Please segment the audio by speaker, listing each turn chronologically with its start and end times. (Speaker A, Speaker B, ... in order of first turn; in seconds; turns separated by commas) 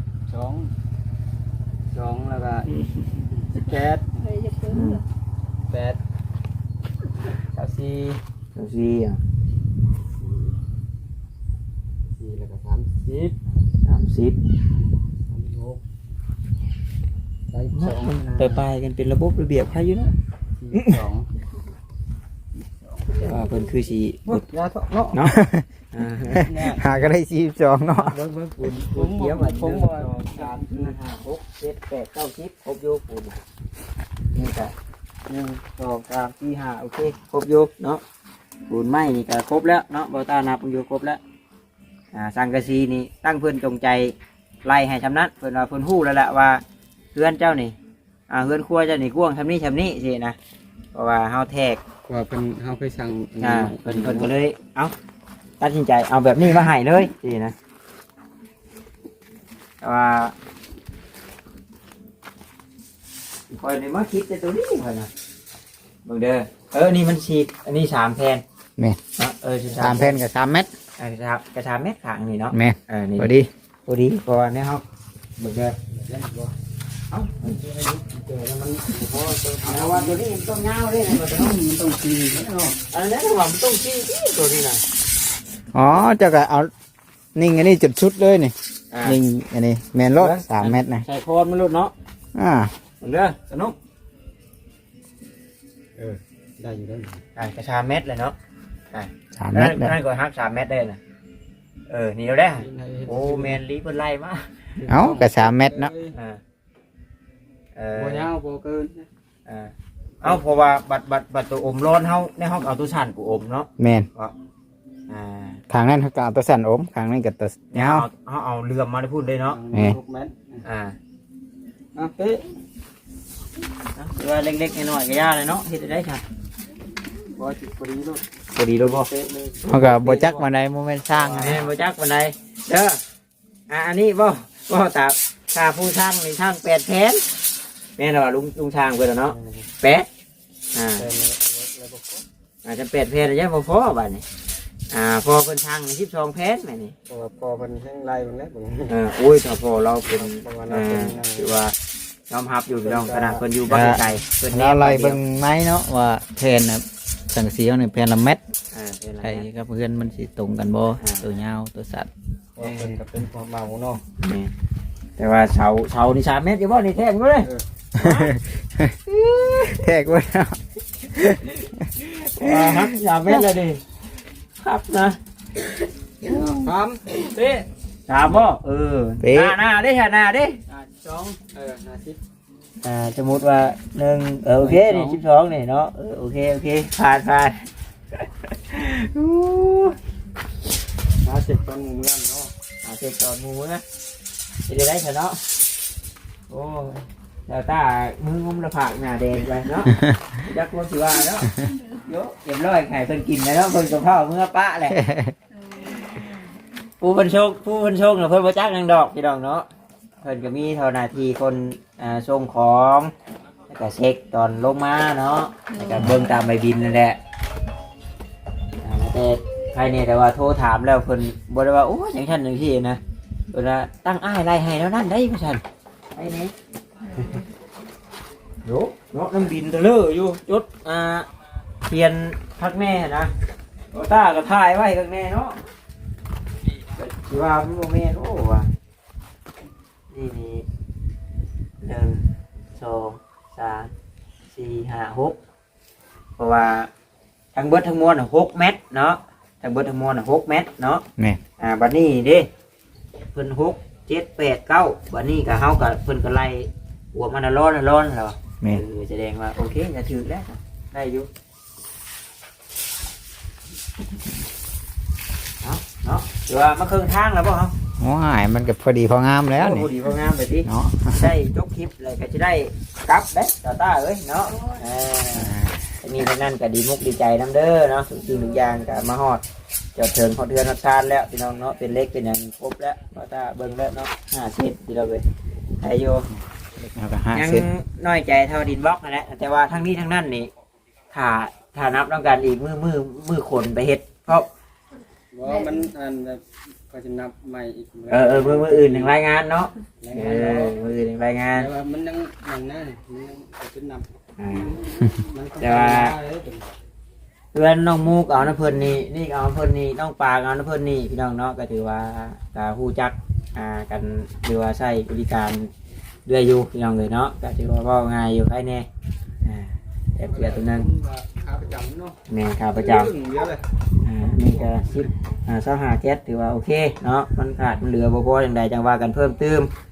Speaker A: 0.3-0.7, Speaker A: 1.9-4.2, Speaker B: 4.7-5.0, Speaker A: 5.7-6.0, Speaker A: 7.5-8.2, Speaker B: 8.5-9.2, Speaker A: 10.2-10.6, Speaker A: 12.2-13.4, Speaker B: 13.8-14.4, Speaker A: 15.2-15.8, Speaker A: 17.5-18.6, Speaker B: 17.7-20.1, Speaker A: 20.6-21.3, Speaker A: 22.6-23.4, Speaker B: 23.2-24.4, Speaker A: 24.3-25.2, Speaker C: 25.2-25.7, Speaker B: 25.9-26.4, Speaker C: 26.3-28.2, Speaker A: 26.4-26.8, Speaker B: 27.9-33.4, Speaker A: 28.8-30.9, Speaker B: 34.3-34.7, Speaker A: 35.3-35.6, Speaker B: 35.8-38.0, Speaker B: 38.7-41.2, Speaker B: 42.1-46.6, Speaker B: 47.1-47.8, Speaker B: 48.3-50.4, Speaker B: 50.9-51.8, Speaker A: 52.1-54.3, Speaker B: 53.4-54.9, Speaker B: 55.6-57.5, Speaker B: 59.8-60.3, Speaker B: 63.5-65.1, Speaker B: 66.0-68.4, Speaker B: 69.2-70.2, Speaker C: 69.7-70.7, Speaker B: 71.0-73.3, Speaker C: 72.5-73.5, Speaker B: 73.8-74.8, Speaker B: 75.4-75.8, Speaker A: 75.9-76.5, Speaker B: 77.1-77.4, Speaker A: 77.4-80.2, Speaker B: 79.6-81.6, Speaker A: 81.1-82.8, Speaker B: 82.9-84.8, Speaker C: 85.7-86.7, Speaker C: 87.3-91.0, Speaker B: 88.9-89.2, Speaker B: 90.1-91.9, Speaker C: 92.3-92.7, Speaker B: 93.0-93.7, Speaker A: 96.0-97.2, Speaker B: 97.3-98.3, Speaker B: 98.9-101.0, Speaker C: 99.3-99.9, Speaker B: 101.9-104.5, Speaker A: 102.5-103.6, Speaker A: 104.8-106.1, Speaker C: 104.9-105.9, Speaker B: 106.1-106.4, Speaker B: 107.7-108.3, Speaker A: 107.9-109.1, Speaker B: 109.5-114.3, Speaker A: 110.2-110.5, Speaker C: 113.8-114.1, Speaker B: 115.1-115.6, Speaker C: 115.7-118.1, Speaker B: 117.7-119.6, Speaker A: 119.5-120.6, Speaker C: 119.7-120.0, Speaker B: 120.6-121.0, Speaker A: 121.9-122.4, Speaker B: 123.9-126.2, Speaker A: 127.3-128.2, Speaker B: 128.5-129.1, Speaker A: 128.8-130.5, Speaker C: 129.7-131.6, Speaker A: 131.1-131.7, Speaker B: 131.3-133.0, Speaker B: 133.7-137.2, Speaker B: 138.0-140.1, Speaker A: 139.3-139.7, Speaker B: 140.7-141.1, Speaker A: 140.9-142.2, Speaker B: 142.6-144.2, Speaker B: 144.9-146.9, Speaker A: 147.1-149.0, Speaker B: 148.9-151.7, Speaker A: 150.1-151.6, Speaker B: 152.3-155.2, Speaker A: 152.7-153.4, Speaker C: 153.7-158.4, Speaker B: 158.7-159.5, Speaker C: 159.2-162.1, Speaker B: 161.0-161.3, Speaker A: 162.6-164.0, Speaker B: 162.6-162.9, Speaker B: 164.2-164.5, Speaker B: 165.2-168.3, Speaker C: 168.0-168.9, Speaker B: 169.1-169.8, Speaker C: 169.6-172.9, Speaker B: 172.3-173.8, Speaker B: 174.6-175.2, Speaker A: 176.2-177.6, Speaker B: 178.1-180.6, Speaker C: 179.2-179.6, Speaker A: 180.7-182.2, Speaker B: 182.8-187.6, Speaker A: 184.6-185.2, Speaker B: 188.5-189.9, Speaker A: 191.2-192.5, Speaker B: 192.8-193.8, Speaker B: 194.7-195.4, Speaker B: 196.5-205.0, Speaker C: 204.9-205.3, Speaker B: 207.0-209.7, Speaker B: 210.2-213.1, Speaker B: 213.7-217.2, Speaker B: 218.8-223.0, Speaker B: 223.5-225.6, Speaker B: 226.1-226.5, Speaker B: 228.6-231.3, Speaker B: 231.9-233.3, Speaker B: 233.9-235.6, Speaker B: 236.9-238.7, Speaker B: 240.1-240.7, Speaker B: 241.8-242.2, Speaker B: 242.7-243.9, Speaker B: 244.5-245.4, Speaker B: 246.4-246.9, Speaker B: 247.5-251.0, Speaker B: 251.6-252.5, Speaker B: 253.3-261.3, Speaker B: 265.6-267.7, Speaker C: 268.0-269.9, Speaker B: 269.5-279.4, Speaker C: 270.6-271.3, Speaker C: 275.3-275.8, Speaker B: 279.9-285.2, Speaker B: 285.8-286.3, Speaker C: 286.8-287.7, Speaker B: 287.3-290.5, Speaker B: 291.1-294.5, Speaker A: 295.3-299.1, Speaker B: 298.1-301.7, Speaker A: 300.0-300.8, Speaker A: 301.5-306.7, Speaker B: 304.4-304.8, Speaker B: 305.6-306.1, Speaker B: 307.5-315.7, Speaker B: 316.2-318.9, Speaker B: 319.4-320.9, Speaker A: 320.3-322.2, Speaker B: 322.3-323.1, Speaker A: 322.7-323.6, Speaker B: 324.0-329.7